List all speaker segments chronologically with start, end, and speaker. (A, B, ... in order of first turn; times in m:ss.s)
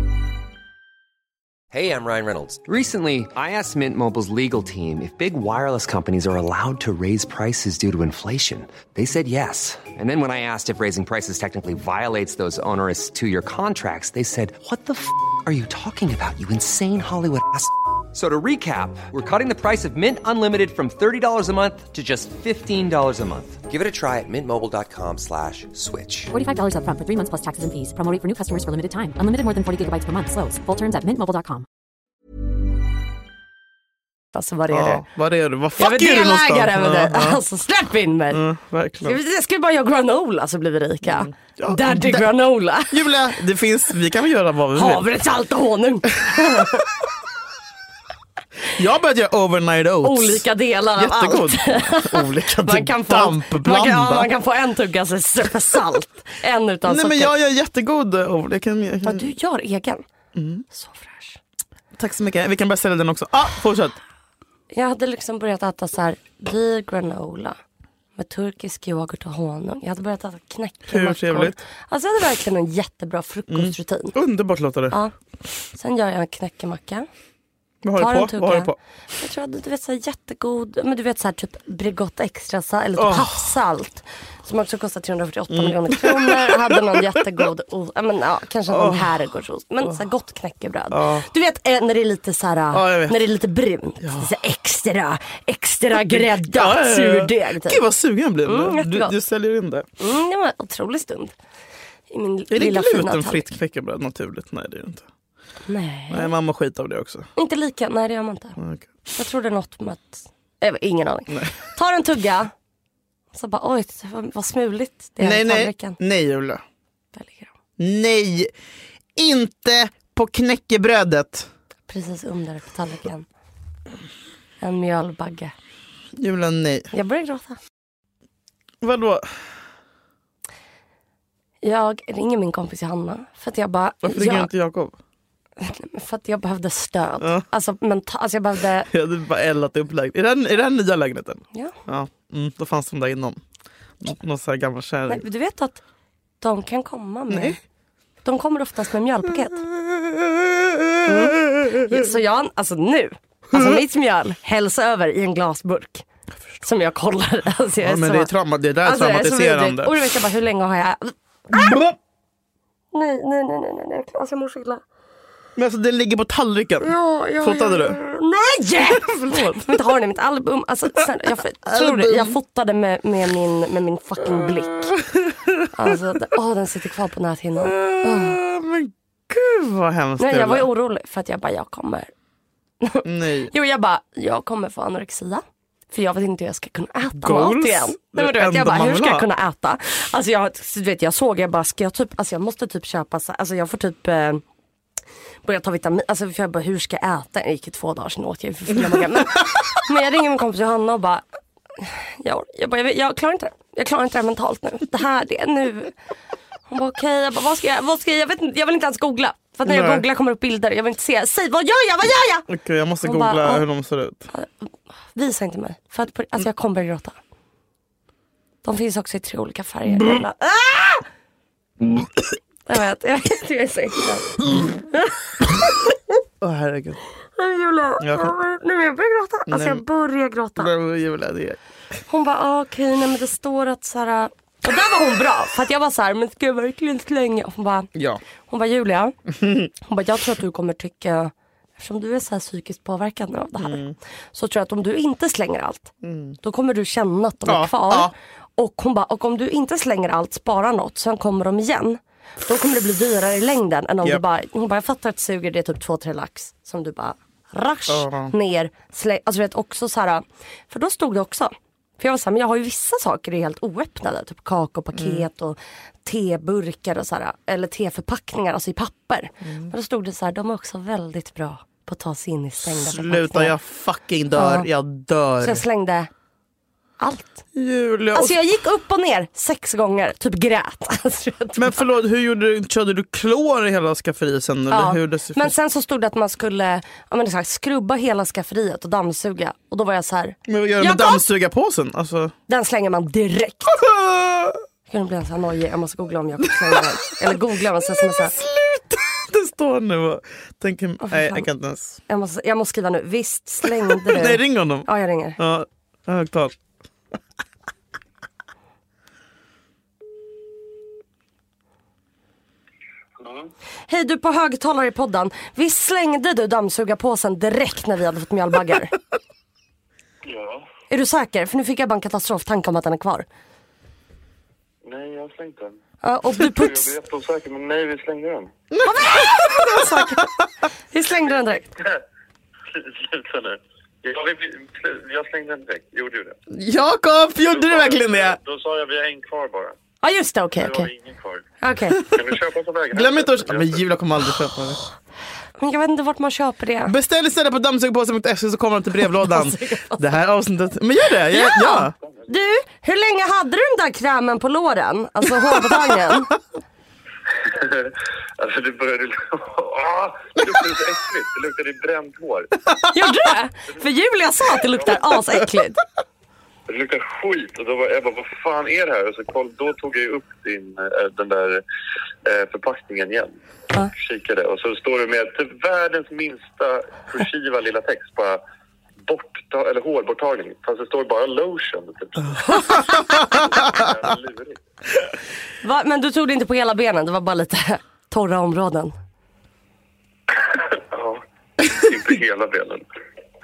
0:01.7-0:26.3 A
0:26.3-0:31.6 B
0:34.4-0:35.0 C
0:34.7-0:37.4 D
0:35.8-0:38.4 C
0:38.3-0:39.2 D
0:39.0-0:43.1 C
0:41.1-0:42.3 D
0:42.9-0:45.1 D
0:44.7-0:46.9 C
0:46.3-0:46.6 D
0:48.7-0:54.3 D
0:50.0-0:57.3 C
0:56.8-0:59.3 D
0:59.0-1:00.0 C
1:00.4-1:00.6 D
1:00.7-1:01.4 C
1:02.0-1:04.0 D
1:04.7-1:07.6 C
1:08.2-1:14.2 C
1:10.9-1:11.6 D
1:13.5-1:15.0 D
1:15.7-1:17.1 C
1:17.8-1:18.8 D
1:18.0-1:37.8 C
1:23.0-1:23.4 D
1:25.5-1:27.2 D
1:28.7-1:29.1 D
1:30.9-1:31.3 D
1:32.7-1:33.2 D
1:34.0-1:34.3 D
1:35.9-1:39.9 D
1:38.5-1:39.2 C
1:40.0-1:41.3 C
1:42.1-1:43.5 C
1:42.5-1:45.1 D
1:45.7-1:46.3 C
1:46.1-1:47.3 D
1:47.4-1:48.6 C
1:48.6-1:48.9 D
1:49.1-1:52.5 C
1:53.3-1:56.0 C
1:55.2-1:56.6 D
1:57.1-1:57.5 C
1:57.8-1:58.5 D
1:59.2-2:01.5 D
2:01.9-2:03.3 C
2:04.6-2:05.5 C
2:06.2-2:06.9 D
2:06.9-2:07.6 C
2:08.8-2:09.4 D
2:11.6-2:14.5 C
2:14.0-2:15.0 D
2:15.6-2:18.9 C
2:18.9-2:23.4 D
2:24.0-2:25.2 D
2:25.1-2:25.8 C
2:26.4-2:27.6 C
2:27.3-2:27.6 D
2:28.2-2:29.6 C
2:29.6-2:32.1 D
2:31.0-2:36.0 C
2:33.5-2:33.8 D
2:36.6-2:38.3 C
2:37.8-2:40.0 D
2:38.8-2:41.8 C
2:41.5-2:42.0 D
2:42.9-2:44.8 C
2:45.6-2:48.0 D
2:46.8-2:55.0 C
2:48.8-2:49.8 D
2:51.7-2:52.4 D
2:54.2-2:56.0 D
2:55.7-2:58.4 C
2:57.6-3:00.7 D
3:00.2-3:02.1 C
3:02.8-3:14.4 C
3:03.0-3:03.5 D
3:07.1-3:09.3 D
3:15.4-3:21.2 C
3:18.9-3:19.4 D
3:21.8-3:25.9 C
3:26.7-3:32.5 C
3:29.6-3:30.0 D
3:32.5-3:34.3 D
3:33.0-3:33.6 C
3:35.1-3:37.2 C
3:38.6-3:41.0 C
3:42.7-3:45.2 C
3:46.4-3:47.0 D
3:47.4-3:50.7 C
3:48.0-3:48.4 D
3:49.5-3:49.8 D
3:50.6-3:51.6 D
3:52.1-3:57.9 C
3:58.0-3:58.2 D
3:58.5-3:59.2 C
3:59.8-4:33.6 C
4:03.6-4:04.0 D
4:06.0-4:06.4 D
4:07.5-4:08.1 D
4:17.9-4:18.3 D
4:25.0-4:25.3 D
4:32.6-4:35.6 D
4:34.3-4:34.7 C
4:35.4-4:36.1 C
4:37.0-4:37.4 C
4:37.5-4:38.4 D
4:38.1-4:41.8 C
4:41.6-4:45.6 D
4:44.7-4:51.2 C
4:50.5-4:52.3 D
4:52.5-4:53.8 C
4:53.7-4:54.6 D
4:54.9-4:58.4 C
4:56.4-4:57.3 D
4:57.8-5:02.0 D
5:01.0-5:01.5 C
5:02.1-5:05.4 C
5:03.9-5:06.6 D
5:13.2-5:13.5 E
5:13.9-5:19.0 C
5:20.3-5:20.7 E
5:20.9-5:23.3 C
5:24.8-5:25.8 E
5:26.0-5:27.0 C
5:26.4-5:28.5 E
5:28.7-5:30.4 D
5:28.8-5:30.3 C
5:30.9-5:31.7 C
5:32.7-5:36.4 E
5:36.5-5:38.4 D
5:37.4-5:39.8 E
5:40.0-5:40.9 C
5:40.6-5:41.5 E
5:41.6-5:42.1 C
5:42.0-5:43.9 E
5:42.9-5:44.8 D
5:45.6-5:47.0 C
5:46.9-5:51.9 D
5:49.2-5:50.1 C
5:51.3-5:56.3 C
5:57.4-6:02.5 E
6:02.9-6:05.8 C
6:06.7-6:11.6 E
6:12.2-6:18.4 E
6:19.0-6:24.6 E
6:25.6-6:28.9 C
6:30.8-6:32.8 E